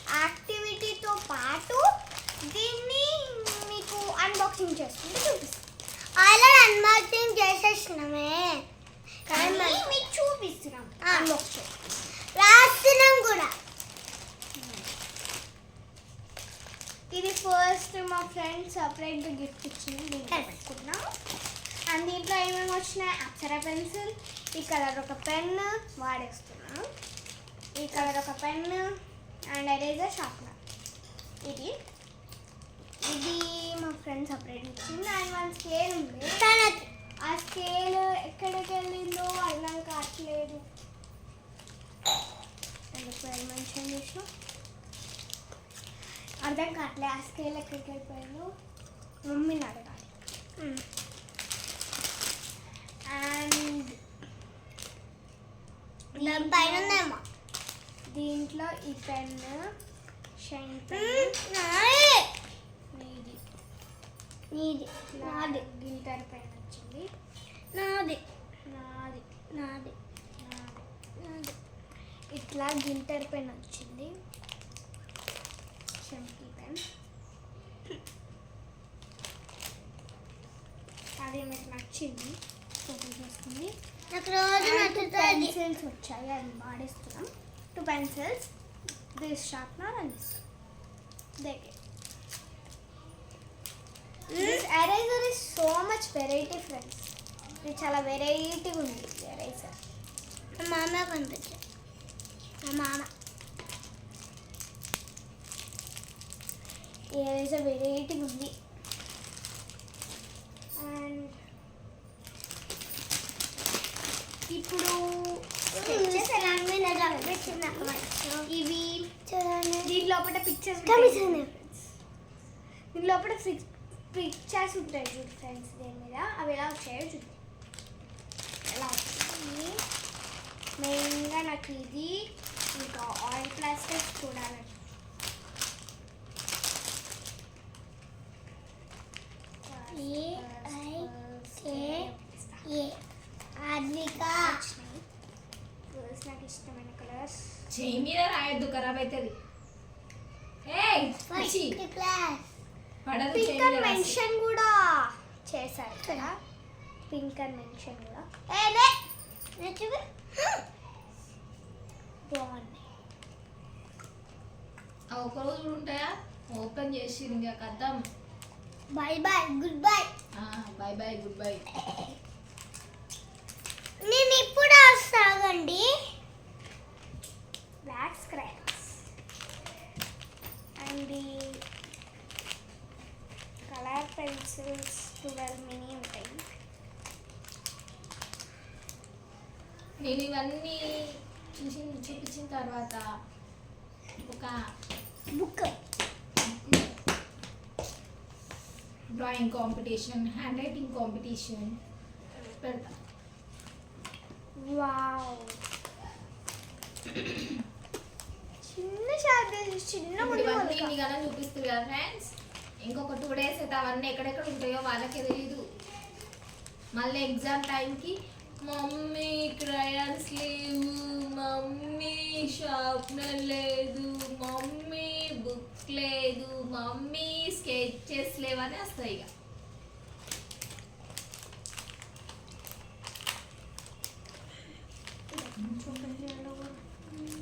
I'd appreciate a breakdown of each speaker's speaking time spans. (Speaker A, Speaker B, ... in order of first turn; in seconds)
Speaker A: 0.1-1.9, 2.5-5.6, 9.3-11.7, 14.6-14.9, 17.1-21.1, 21.9-26.9, 27.7-30.6, 31.4-31.8, 33.0-36.4, 37.2-40.7, 42.9-44.3, 46.4-48.5, 49.2-50.1, 53.1-54.0, 56.1-57.0, 58.1-59.7, 60.4-61.4, 62.9-63.4, 65.1-67.1, 68.7-69.2, 70.4-71.5, 72.3-74.1, 76.0-76.8, 81.2-83.8, 84.6-88.5, 89.1-90.4, 91.4-91.8, 94.4-99.8, 107.1-108.5, 110.8-111.4, 114.5-119.1, 119.8-121.9, 122.9-127.4, 128.7-129.8, 130.8-134.8, 139.7-142.7, 144.4-145.1, 145.9-147.7, 153.3-156.4, 157.1-159.0, 162.3-162.8, 177.8-179.0, 180.8-181.6, 183.7-186.4, 195.3-195.7, 204.6-205.6, 208.6-210.9, 235.3-236.9
Speaker B: 6.2-8.6, 9.2-10.0, 11.0-11.3, 12.3-13.6, 20.3-20.6, 36.3-36.9, 50.6-50.8, 56.1-57.2, 60.9-62.3, 64.5-65.6, 67.7-68.2, 69.5-70.0, 84.1-85.5, 94.3-94.6, 100.6-101.6, 102.6-103.1, 115.7-118.5, 119.3-119.9, 120.9-121.5, 139.9-141.1, 141.6-142.1, 142.6-143.0, 143.6-144.6, 151.3-152.5, 156.0-156.3, 159.6-160.6, 168.9-170.1, 174.0-175.9
Speaker C: 147.7-149.3, 150.7-151.8, 153.1-154.2, 165.1-168.0, 170.3-171.7, 190.0-193.0, 194.2-194.6, 196.4-196.9, 199.1-201.8, 202.6-202.9, 210.2-215.6, 216.9-229.3, 235.6-236.0